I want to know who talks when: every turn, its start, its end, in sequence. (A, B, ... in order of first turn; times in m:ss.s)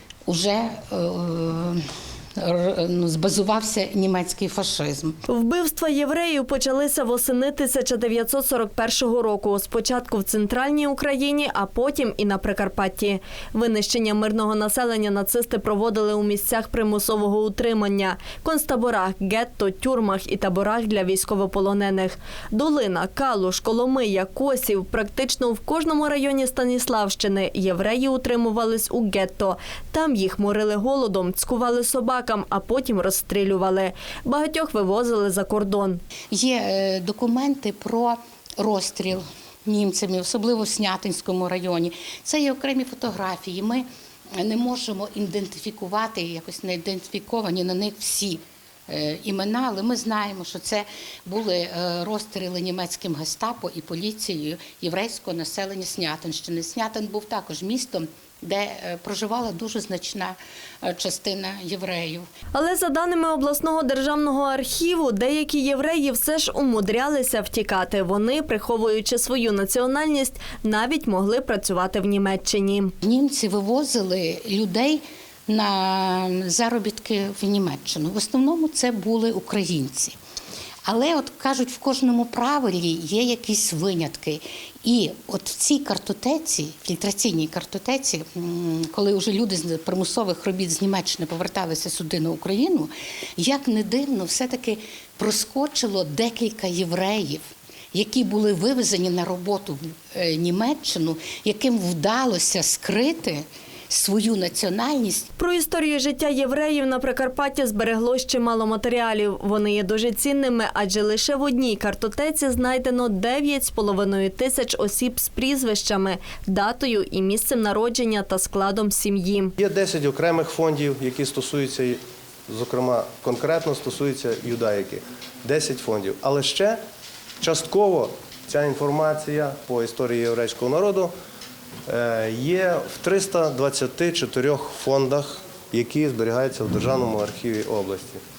0:00.2-0:05.2 A
0:05.3-0:36.0 B
0:36.3-0:43.8 A
0:44.4-1:02.3 A
1:02.5-1:12.9 B
1:13.0-1:20.1 A
1:20.8-1:45.3 A
1:45.4-1:59.5 B
1:59.6-2:06.8 C
2:07.4-2:11.1 C
2:11.9-2:18.2 C